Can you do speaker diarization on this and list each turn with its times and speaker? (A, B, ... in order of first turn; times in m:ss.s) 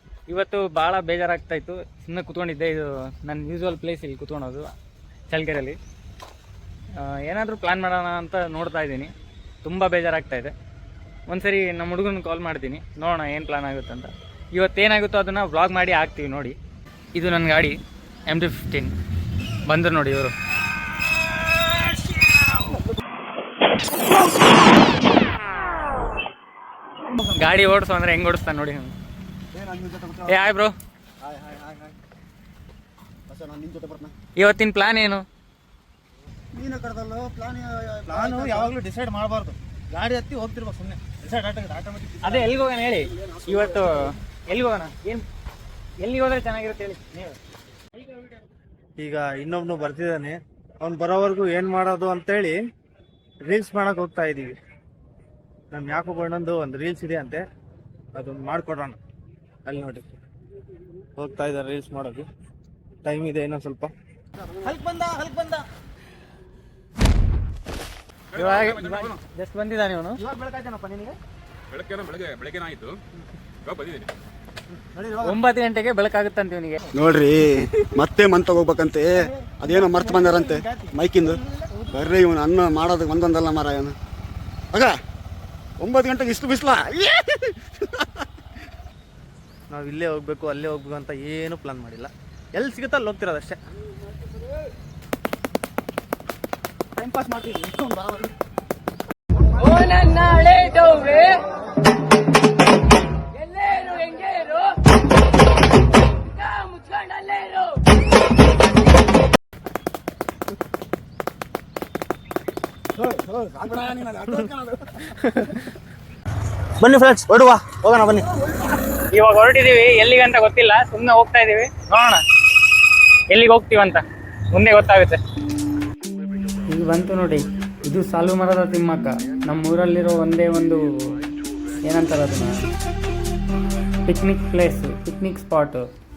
0:00.3-0:04.7 A
0:05.3-0:05.8 A
0:07.0-0:09.1 A
0:09.6-0:10.5 A
0:11.3-0:16.6 A
0:17.1-0:18.9 A
0:19.7-0:20.3 A
0:27.1-0:28.9 A
0:29.5-0:30.4 B
0:30.3-0:30.7 A
0:31.2-0:31.9 B
0:33.3-0:34.1 B
0:34.4-0:35.2 A
0:36.5-0:38.7 B
0:38.1-0:42.4 C
0:42.2-0:45.2 A
0:43.2-0:43.8 B
0:46.0-0:47.4 A
0:49.0-0:52.6 C
0:53.4-0:54.6 C
0:55.7-0:57.4 C
0:58.1-0:59.0 C
0:59.6-1:00.1 C
1:01.2-1:02.3 C
1:03.0-1:03.9 C
1:04.5-1:05.6 C
1:08.3-1:09.2 D
1:08.3-1:10.2 A
1:10.2-1:11.2 C
1:11.7-1:13.0 D
1:13.6-1:14.1 D
1:14.7-1:15.4 C
1:15.2-1:16.8 A
1:16.9-1:24.0 B
1:19.2-1:21.0 C
1:21.5-1:21.9 C
1:25.8-1:28.1 B
1:29.7-1:33.6 C
1:37.3-1:38.3 B
1:39.6-1:41.4 A
1:43.4-1:44.7 A
1:46.4-1:47.7 A
1:52.9-1:55.2 B
1:56.8-1:58.3 C
1:59.1-2:02.2 A
2:03.3-2:05.2 A
2:06.7-2:10.8 A
2:11.8-2:12.7 A
2:14.0-2:15.8 A